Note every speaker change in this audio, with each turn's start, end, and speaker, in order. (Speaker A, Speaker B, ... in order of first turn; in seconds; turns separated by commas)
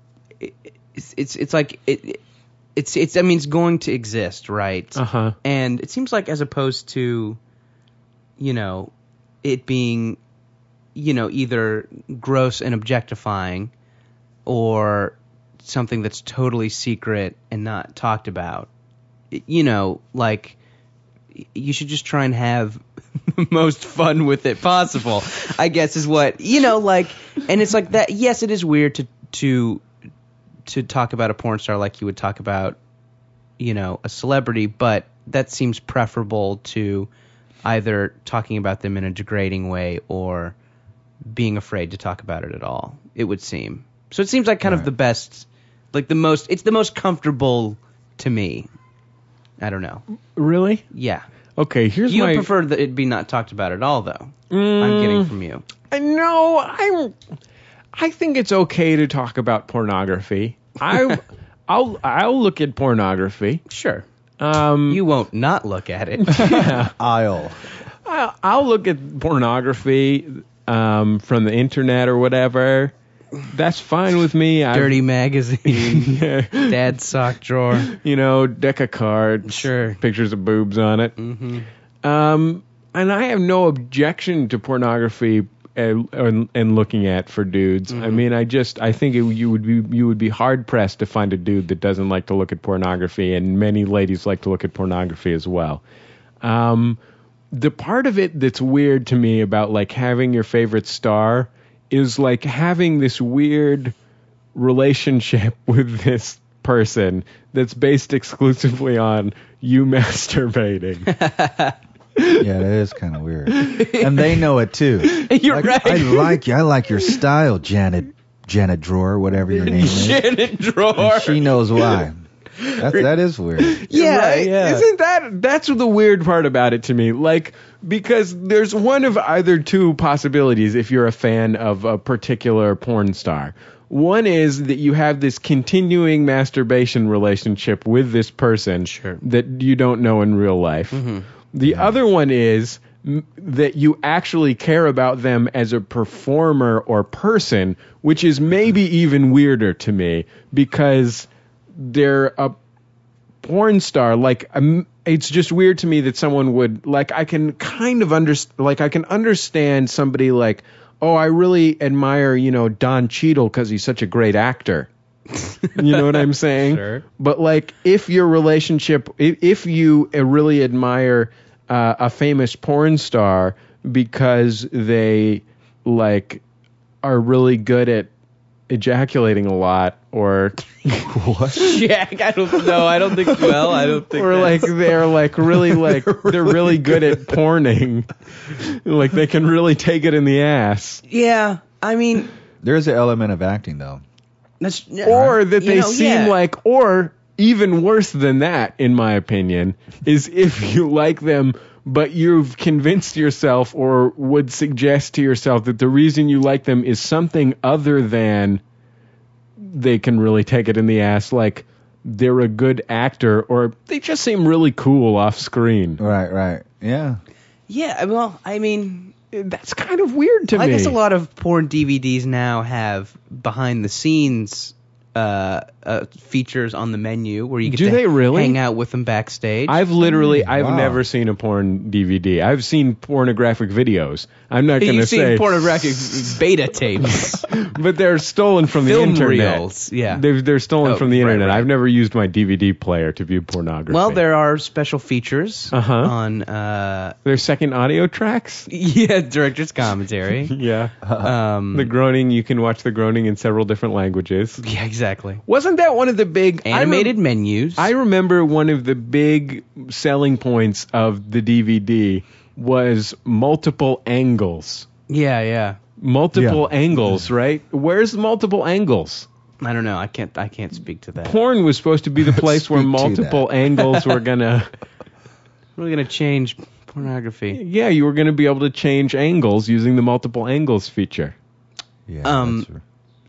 Speaker A: 0.4-2.2, Speaker A: 2.8-7.4, Speaker B: 5.0-5.3, Speaker A: 8.4-8.9, Speaker A: 9.4-10.2, Speaker A: 10.9-13.7, Speaker A: 14.4-18.7, Speaker A: 19.3-20.6, Speaker A: 21.4-29.8, Speaker A: 30.7-32.8, Speaker A: 33.6-37.1, Speaker A: 37.6-40.5, Speaker A: 41.2-48.7, Speaker A: 49.6-50.0, Speaker B: 50.3-50.9, Speaker A: 50.9-51.2, Speaker B: 51.6-52.5, Speaker A: 52.1-55.6, Speaker B: 54.5-55.3, Speaker B: 55.9-57.1, Speaker B: 57.9-63.6, Speaker A: 63.7-64.0, Speaker B: 64.4-65.0, Speaker A: 64.9-66.7, Speaker B: 66.2-66.9, Speaker C: 67.0-67.6, Speaker B: 68.0-72.9, Speaker B: 73.4-75.0, Speaker A: 74.7-77.9, Speaker B: 75.7-76.8, Speaker B: 77.7-81.1, Speaker A: 79.4-80.0, Speaker A: 81.2-81.7, Speaker B: 82.0-95.8, Speaker A: 87.9-88.2, Speaker B: 96.4-97.0, Speaker B: 97.5-103.9, Speaker B: 104.5-111.1, Speaker A: 111.1-111.8, Speaker C: 112.4-120.2, Speaker A: 113.7-114.3, Speaker A: 115.1-116.4, Speaker A: 119.5-122.0, Speaker C: 121.0-122.2, Speaker A: 122.6-123.1, Speaker C: 122.8-123.8, Speaker B: 123.7-152.5, Speaker A: 123.8-124.9, Speaker A: 138.8-139.2, Speaker A: 140.9-141.3, Speaker B: 153.4-164.9, Speaker A: 165.6-166.1, Speaker B: 165.7-176.4, Speaker A: 166.6-167.0, Speaker B: 177.0-178.1, Speaker B: 178.7-181.1, Speaker C: 181.1-181.8, Speaker A: 181.5-184.7, Speaker B: 184.1-191.0, Speaker A: 191.1-192.3, Speaker C: 192.6-194.0, Speaker A: 194.6-196.3, Speaker B: 195.0-208.6, Speaker B: 209.6-216.0, Speaker C: 216.0-217.2, Speaker A: 217.7-219.1, Speaker B: 219.3-221.0, Speaker A: 220.5-229.8, Speaker B: 227.6-228.6, Speaker B: 229.7-236.4, Speaker C: 230.0-231.0, Speaker A: 234.8-237.4, Speaker B: 237.1-244.2, Speaker A: 238.8-240.2, Speaker A: 240.8-241.7, Speaker A: 243.9-247.2, Speaker B: 245.7-246.1, Speaker B: 247.2-248.7, Speaker A: 248.7-250.5, Speaker B: 250.5-251.0, Speaker C: 251.0-251.3, Speaker A: 251.2-251.9, Speaker B: 251.7-254.6, Speaker A: 254.6-255.4, Speaker B: 255.4-257.2, Speaker A: 256.6-257.9, Speaker B: 257.8-264.9, Speaker A: 265.1-265.8, Speaker B: 266.0-269.3, Speaker C: 266.3-267.2, Speaker A: 269.6-271.3, Speaker B: 271.2-274.7, Speaker C: 272.2-273.5, Speaker A: 275.8-277.6, Speaker B: 277.5-281.3, Speaker C: 282.1-282.8, Speaker A: 282.2-282.6